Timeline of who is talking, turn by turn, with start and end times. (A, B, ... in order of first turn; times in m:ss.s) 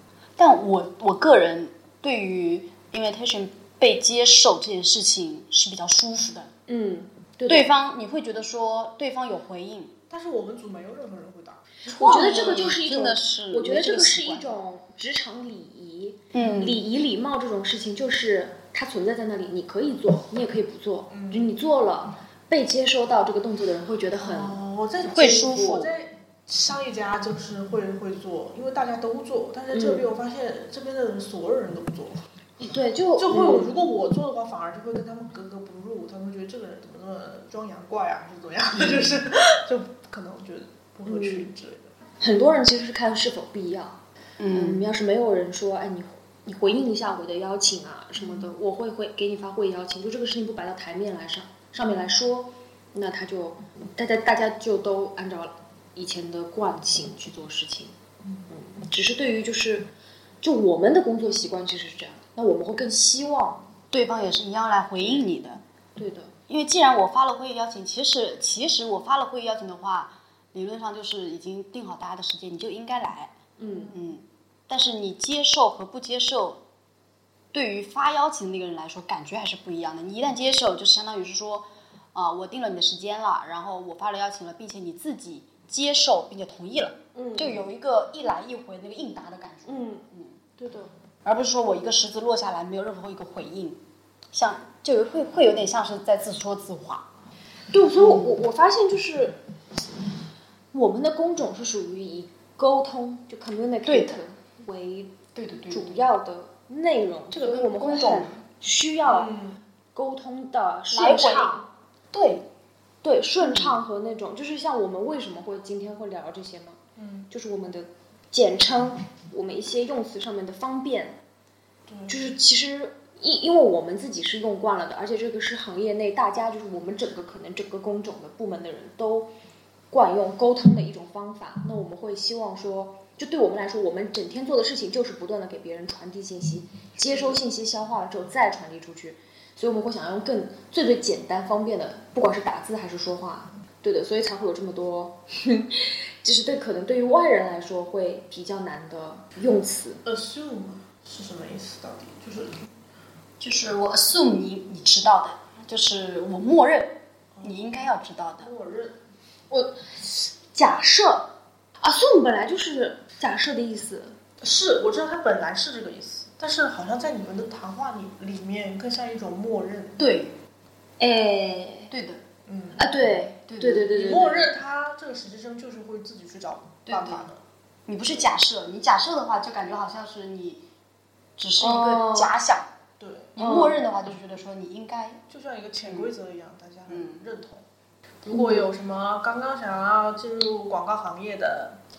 0:00.4-0:06.5 A
0:06.7-0:07.7 B
0:07.5-0:10.0 A
0:10.1-0:12.5 C
0:11.9-0:14.6 A
0:11.9-0:24.6 B
0:16.3-0:16.8 A
0:21.1-0:21.5 C
0:24.2-0:32.2 C
0:25.0-0:25.9 A
0:25.2-0:25.6 B
0:29.7-0:30.0 B
0:32.6-0:33.8 B
0:33.2-0:41.9 C
0:41.1-0:41.5 B
0:42.2-0:44.0 B
0:44.4-0:44.8 A
0:44.5-0:57.9 B
0:48.2-0:48.5 C
0:58.5-0:59.9 B
1:00.4-1:03.7 B
1:03.9-1:05.6 A
1:06.0-1:06.3 B
1:06.5-1:13.4 A
1:13.6-1:13.9 B
1:13.6-1:13.9 C
1:13.9-1:16.6 A
1:17.5-1:30.4 A
1:27.1-1:27.6 B
1:29.6-1:30.0 B
1:30.6-1:30.9 B
1:31.2-1:37.1 A
1:37.7-1:39.4 B
1:38.0-1:38.3 A
1:40.7-1:45.2 B
1:43.8-1:44.2 A
1:45.3-1:46.0 A
1:45.7-1:49.3 B
1:47.3-1:48.4 A
1:49.0-1:49.6 C
1:49.9-1:51.7 B
1:50.9-1:51.5 A
1:52.1-1:52.4 A
1:53.0-1:56.8 B
1:53.4-1:53.7 A
1:57.0-1:57.3 C
1:57.3-2:01.2 B
2:01.9-2:02.2 C
2:02.1-2:09.3 B
2:09.9-2:30.0 B
2:17.0-2:17.4 C
2:30.0-2:32.7 C
2:33.4-2:38.5 A
2:37.4-2:37.8 C
2:38.4-2:39.0 C
2:39.5-2:44.2 B
2:44.4-2:50.0 C
2:50.0-2:50.4 A
2:51.0-2:51.9 B
2:51.9-2:52.2 A
2:52.5-2:52.8 C
2:52.8-2:54.5 B
2:53.5-2:53.9 A
2:53.7-2:57.4 C
2:56.9-2:57.2 A
2:57.8-3:00.6 A
3:01.4-3:02.7 A
3:01.6-3:02.3 B
3:03.0-3:03.4 C
3:03.4-3:05.2 A
3:03.4-3:03.8 B
3:05.3-3:07.6 C
3:05.8-3:06.1 A
3:06.9-3:07.2 A
3:08.3-3:08.6 B
3:08.3-3:11.8 C